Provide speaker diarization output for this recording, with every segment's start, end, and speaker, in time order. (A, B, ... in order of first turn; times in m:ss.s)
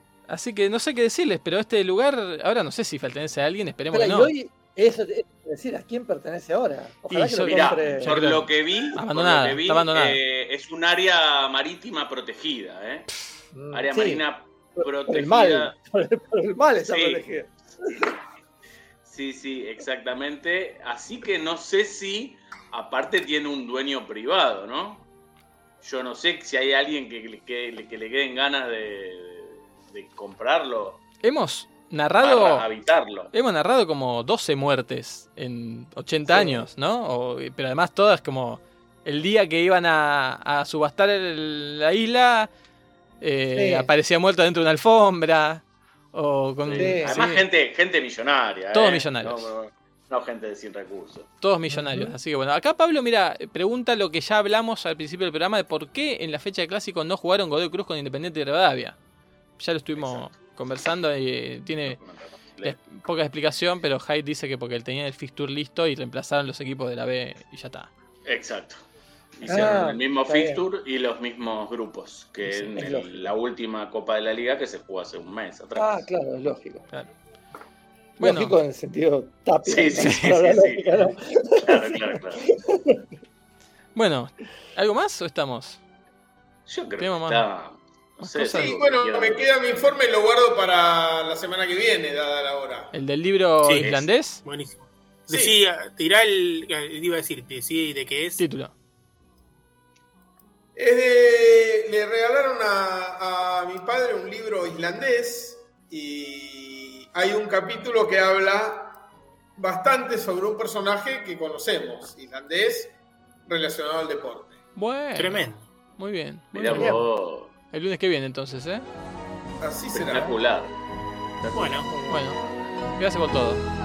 0:00.3-0:04.3 A
0:03.9-0:08.2 B
0:07.1-0:10.2 A
0:07.4-0:13.1 C
0:13.5-0:14.2 B
0:13.7-0:15.7 C
0:14.8-0:18.1 B
0:16.8-0:17.3 C
0:19.0-0:25.0 C
0:25.8-0:31.0 C
0:31.2-0:32.6 A
0:32.2-0:33.3 C
0:33.3-0:42.5 A
0:36.3-0:36.7 B
0:43.2-0:47.4 A
0:43.6-0:43.9 B
0:46.6-0:51.3 C
0:46.7-0:47.2 B
0:48.7-0:49.5 A
0:51.4-0:59.0 A
0:51.7-0:52.1 B
0:59.6-1:02.0 A
1:00.0-1:00.2 C
1:01.9-1:02.8 C
1:02.6-1:07.9 A
1:08.2-1:08.8 C
1:09.4-1:16.1 C
1:09.4-1:10.6 B
1:12.5-1:12.8 A
1:12.8-1:13.3 B
1:15.8-1:16.9 B
1:18.2-1:18.6 A
1:18.2-1:23.0 B
1:19.6-1:22.4 C
1:20.0-1:20.3 A
1:23.9-1:25.8 A
1:26.7-1:29.4 C
1:27.0-1:27.4 A
1:28.2-1:28.8 A
1:28.6-1:32.9 D
1:32.9-1:34.4 A
1:33.6-1:33.9 E
1:33.8-1:34.1 C
1:34.4-1:38.4 E
1:35.3-1:35.6 D
1:38.4-1:38.7 A
1:40.8-1:49.0 D
1:49.6-1:54.6 D
1:54.8-1:57.0 A
1:55.1-1:55.6 E
1:56.5-1:57.5 C
1:56.7-1:57.0 B
1:57.7-1:58.8 A
1:59.6-2:00.4 D
1:59.9-2:00.7 C
2:01.4-2:02.0 C
2:01.5-2:01.9 E
2:01.8-2:02.2 B
2:02.1-2:02.4 A
2:02.9-2:03.6 A